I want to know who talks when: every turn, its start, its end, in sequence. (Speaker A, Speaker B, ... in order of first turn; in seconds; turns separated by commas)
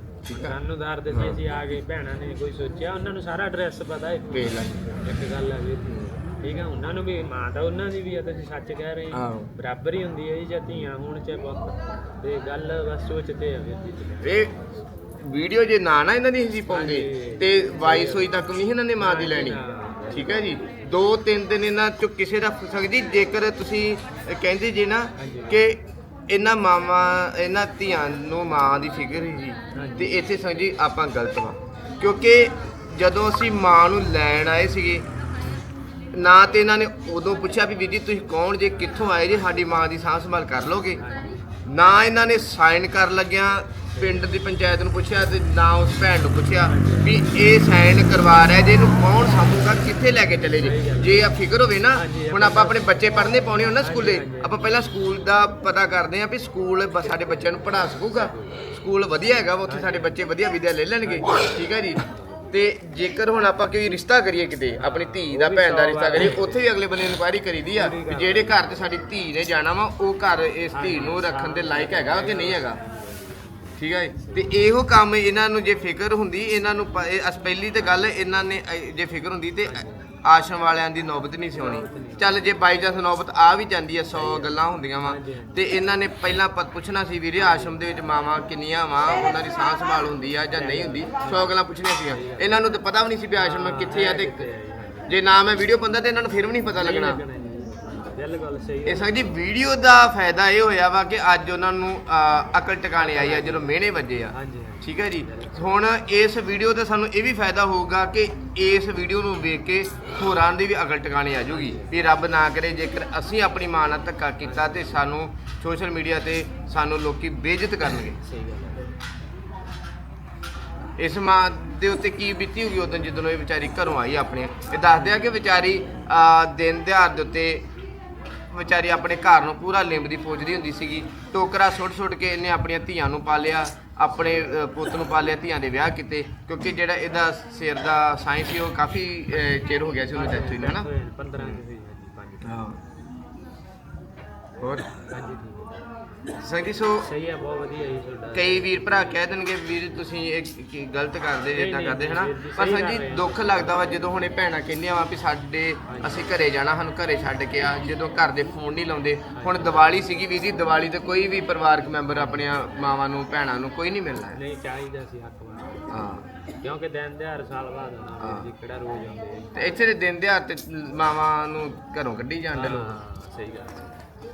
Speaker A: 0.3-14.6, Speaker B: 0.3-0.5, Speaker B: 1.1-1.4, Speaker B: 4.3-4.8, Speaker B: 5.8-6.2, Speaker B: 9.1-9.5, Speaker B: 14.2-14.5, Speaker B: 15.2-35.0, Speaker A: 16.7-18.3, Speaker A: 19.0-20.6, Speaker A: 25.2-25.6, Speaker A: 29.7-30.2, Speaker B: 36.1-41.0, Speaker A: 40.9-41.4, Speaker B: 41.6-72.8, Speaker A: 43.9-44.2, Speaker A: 46.6-47.2, Speaker A: 50.5-51.3, Speaker A: 51.9-53.0, Speaker A: 53.8-54.6, Speaker A: 57.0-58.6, Speaker A: 59.7-60.2, Speaker A: 61.0-62.5, Speaker A: 64.8-66.7, Speaker A: 67.7-68.7, Speaker A: 70.7-74.7, Speaker B: 73.8-94.5, Speaker A: 77.8-78.0, Speaker A: 79.6-80.1, Speaker A: 81.5-82.5, Speaker A: 84.1-85.6, Speaker A: 87.4-87.8, Speaker A: 90.5-92.6, Speaker A: 93.3-95.1, Speaker B: 95.1-97.2, Speaker A: 96.7-99.3, Speaker B: 98.8-118.2, Speaker A: 103.0-103.7, Speaker A: 104.3-105.7, Speaker A: 111.5-112.0, Speaker A: 114.4-115.0, Speaker A: 117.8-118.9, Speaker B: 121.0-127.7, Speaker A: 125.0-125.3, Speaker B: 128.5-141.6, Speaker A: 134.2-134.5, Speaker A: 140.1-142.6, Speaker B: 142.4-142.8, Speaker B: 144.6-144.9, Speaker A: 145.0-145.8, Speaker B: 146.4-147.1, Speaker A: 147.0-149.2, Speaker B: 148.3-164.4, Speaker A: 151.5-154.1, Speaker A: 155.9-156.3, Speaker A: 159.3-160.1, Speaker A: 162.1-162.8, Speaker A: 164.3-166.1, Speaker B: 165.9-166.2, Speaker A: 166.6-169.8, Speaker B: 168.2-168.5, Speaker B: 169.5-173.0, Speaker A: 172.5-174.0